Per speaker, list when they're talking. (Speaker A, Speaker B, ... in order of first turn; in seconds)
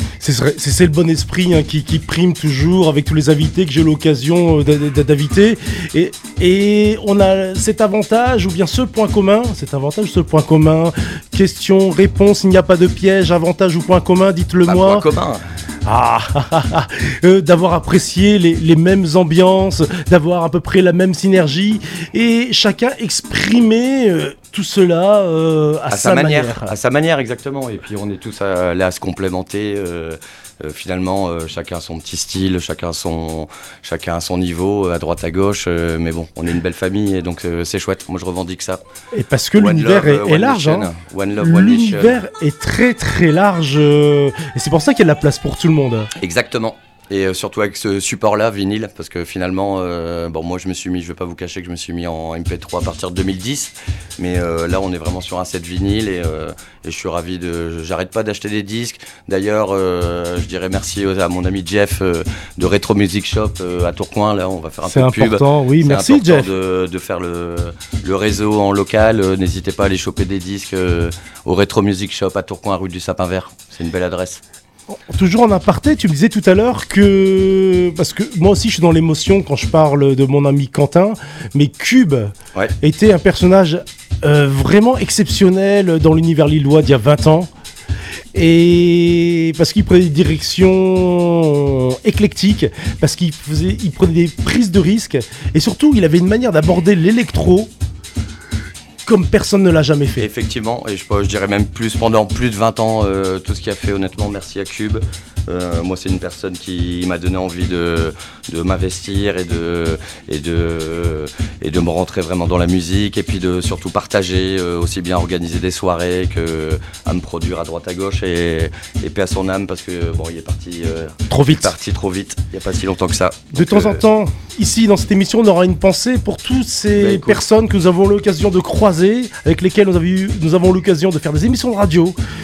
Speaker A: 0.2-15.0, 15.8-26.7, 39.1-46.1, 64.8-66.5, 75.1-87.5, 88.3-97.7, 99.0-100.3, 121.3-121.7, 123.5-132.2
Speaker B: 14.6-15.4, 25.9-38.8, 39.5-42.2, 46.1-74.4, 100.2-124.0, 126.9-127.4